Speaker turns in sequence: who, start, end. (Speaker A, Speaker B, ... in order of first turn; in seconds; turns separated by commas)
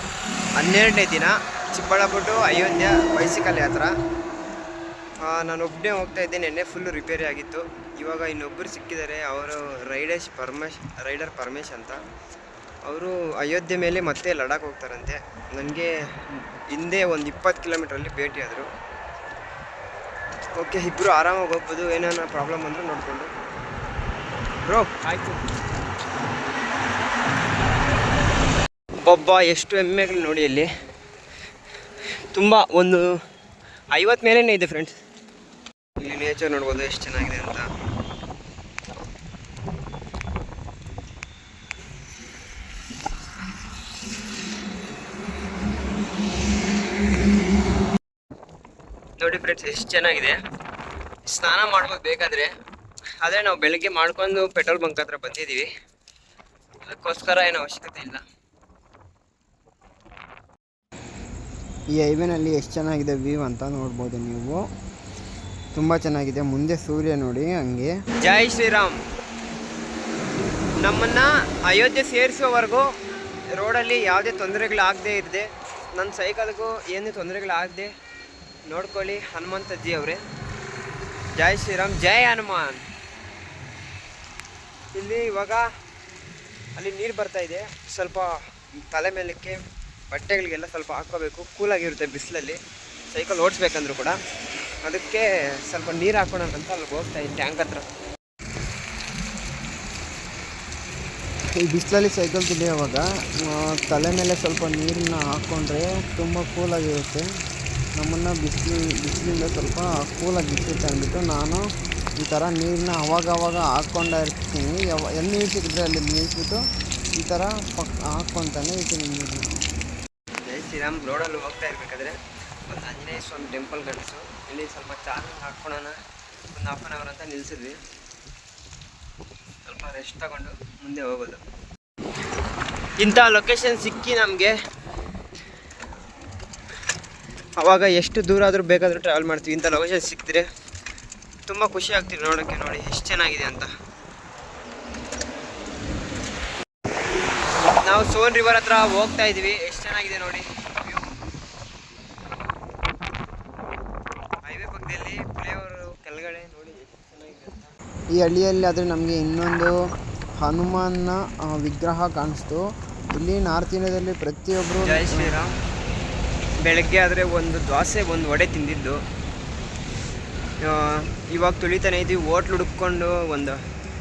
Speaker A: 0.6-3.9, Speaker A: 5.2-12.0, Speaker A: 12.9-18.7, Speaker A: 20.6-23.3, Speaker A: 24.6-25.4, Speaker A: 29.1-30.7, Speaker A: 32.3-33.1, Speaker A: 34.0-35.0, Speaker A: 36.0-37.7, Speaker A: 49.2-50.4, Speaker A: 51.3-52.5, Speaker A: 53.2-55.7, Speaker A: 56.9-58.2, Speaker B: 61.9-64.7, Speaker B: 65.7-68.0, Speaker A: 68.2-69.0, Speaker A: 70.8-72.9, Speaker A: 73.5-77.9, Speaker A: 78.7-80.2, Speaker A: 81.4-82.8, Speaker A: 84.9-85.7, Speaker A: 86.8-88.3, Speaker A: 88.9-89.6, Speaker A: 90.1-92.6, Speaker A: 93.1-94.2, Speaker A: 94.8-97.9, Speaker B: 101.6-107.3, Speaker B: 108.0-111.7, Speaker B: 112.2-116.6, Speaker B: 117.2-119.5, Speaker A: 120.5-122.2, Speaker A: 122.7-126.0, Speaker A: 126.5-127.8, Speaker A: 129.7-131.4, Speaker A: 133.0-134.5, Speaker A: 137.6-140.5, Speaker A: 141.5-143.7, Speaker A: 147.8-151.0, Speaker A: 154.4-157.7, Speaker B: 158.1-159.7, Speaker B: 160.4-162.6, Speaker B: 163.1-165.3, Speaker A: 164.8-165.5, Speaker A: 166.7-169.0, Speaker A: 170.6-173.6